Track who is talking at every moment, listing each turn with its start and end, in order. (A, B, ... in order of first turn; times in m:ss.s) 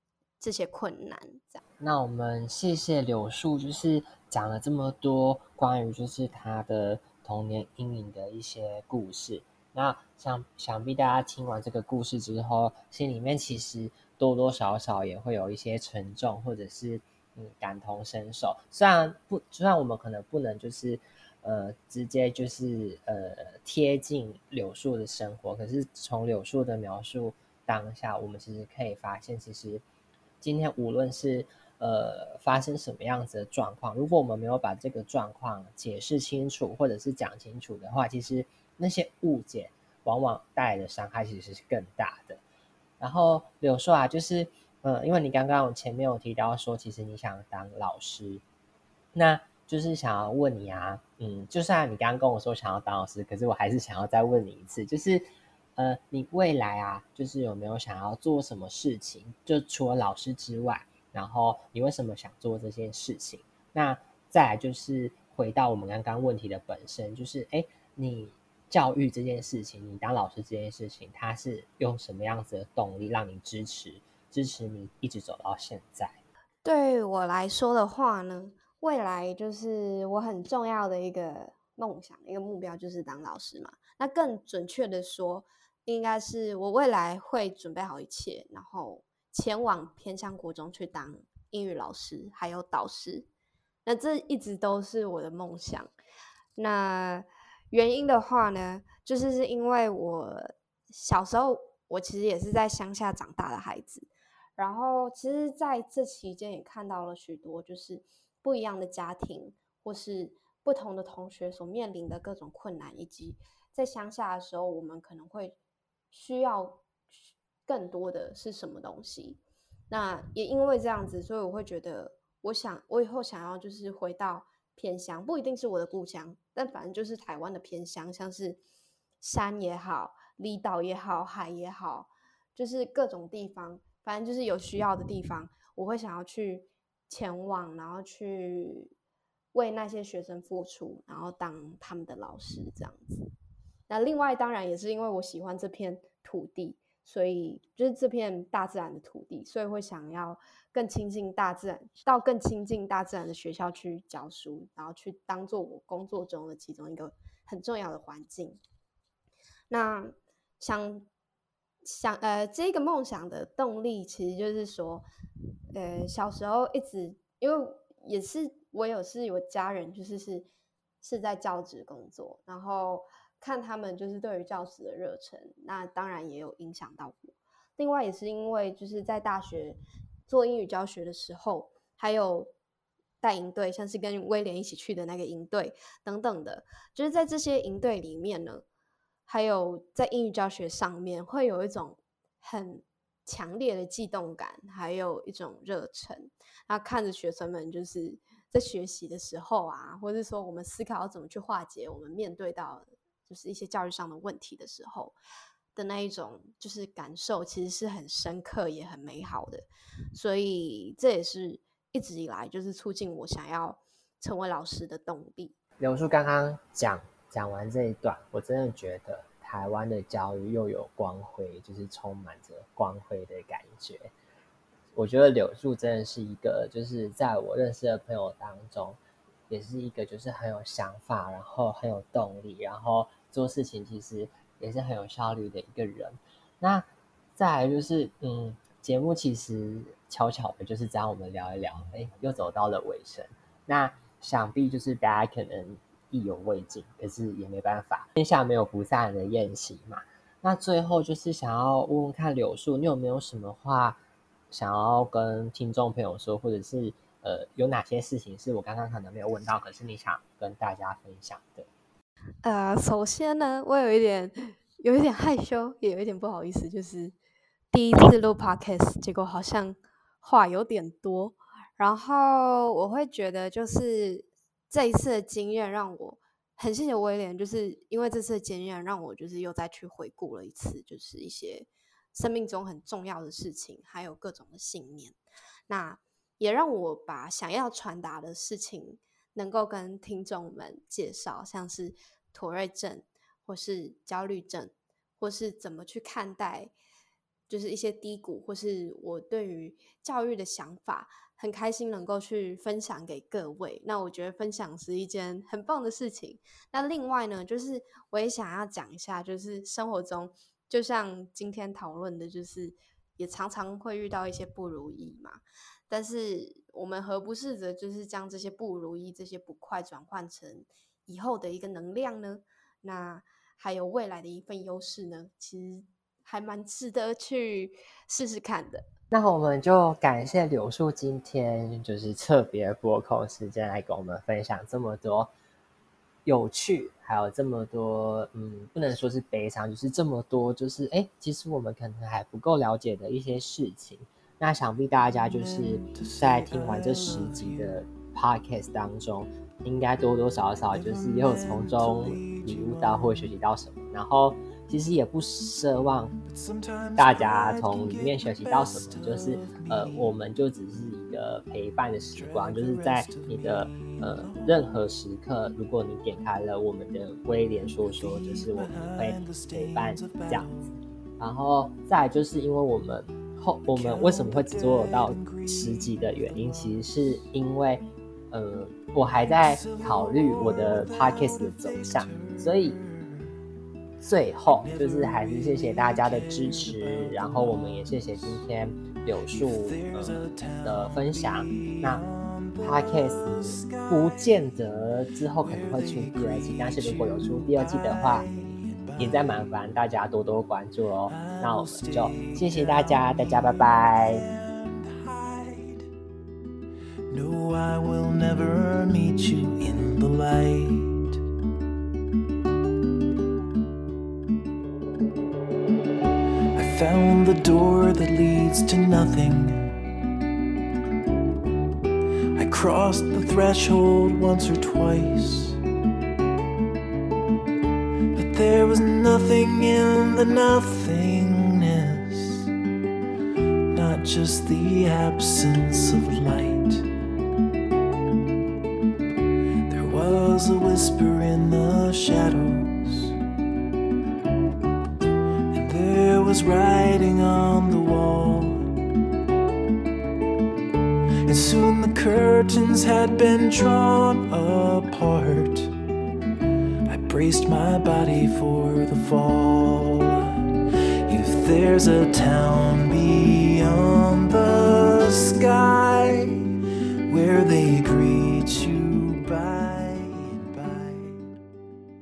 0:00.4-0:01.6 A
0:01.8-0:29.8 B
0:30.4-0:42.4 B
0:43.0-0:48.4 B
0:49.1-0:55.2 B
0:55.8-1:16.2 B
1:16.6-1:33.3 A
1:33.9-1:35.9 A
1:36.6-1:55.6 A
1:56.1-1:56.8 A
1:57.6-2:08.6 A
2:09.2-2:18.9 A
2:19.5-2:23.3 A
2:23.9-2:38.6 A
2:39.7-2:41.1 A
2:41.8-2:45.0 A
2:45.7-2:50.4 A
2:51.0-3:02.5 A
3:03.2-3:08.6 A
3:09.3-3:25.2 A
3:25.7-3:35.6 A
3:35.8-3:44.1 B
3:44.9-4:14.0 B
4:14.5-4:21.7 B
4:22.4-4:27.1 A
4:27.7-4:45.2 A
4:45.7-4:56.7 A
4:57.5-5:28.8 A
5:29.1-5:35.3 B
5:36.2-5:56.1 B
5:45.1-5:47.8 C
5:50.7-5:53.3 C
5:56.2-6:00.1 C
5:57.0-6:10.5 B
6:02.1-6:04.8 C
6:07.8-6:10.7 C
6:11.2-6:22.8 B
6:13.7-6:17.2 C
6:19.2-6:23.3 C
6:24.0-6:32.0 B
6:24.6-6:34.6 C
6:32.6-6:38.2 B
6:35.4-6:39.5 C
6:39.0-6:44.2 B
6:41.1-6:45.9 C
6:47.1-6:51.2 C
6:56.5-6:59.7 C
7:02.4-7:05.6 C
7:08.1-7:12.5 C
7:13.7-7:16.9 C
7:19.7-7:23.2 C
7:25.5-7:28.7 C
7:31.2-7:35.7 C
7:36.9-7:40.4 C
7:41.1-7:46.5 C
7:47.1-7:51.4 C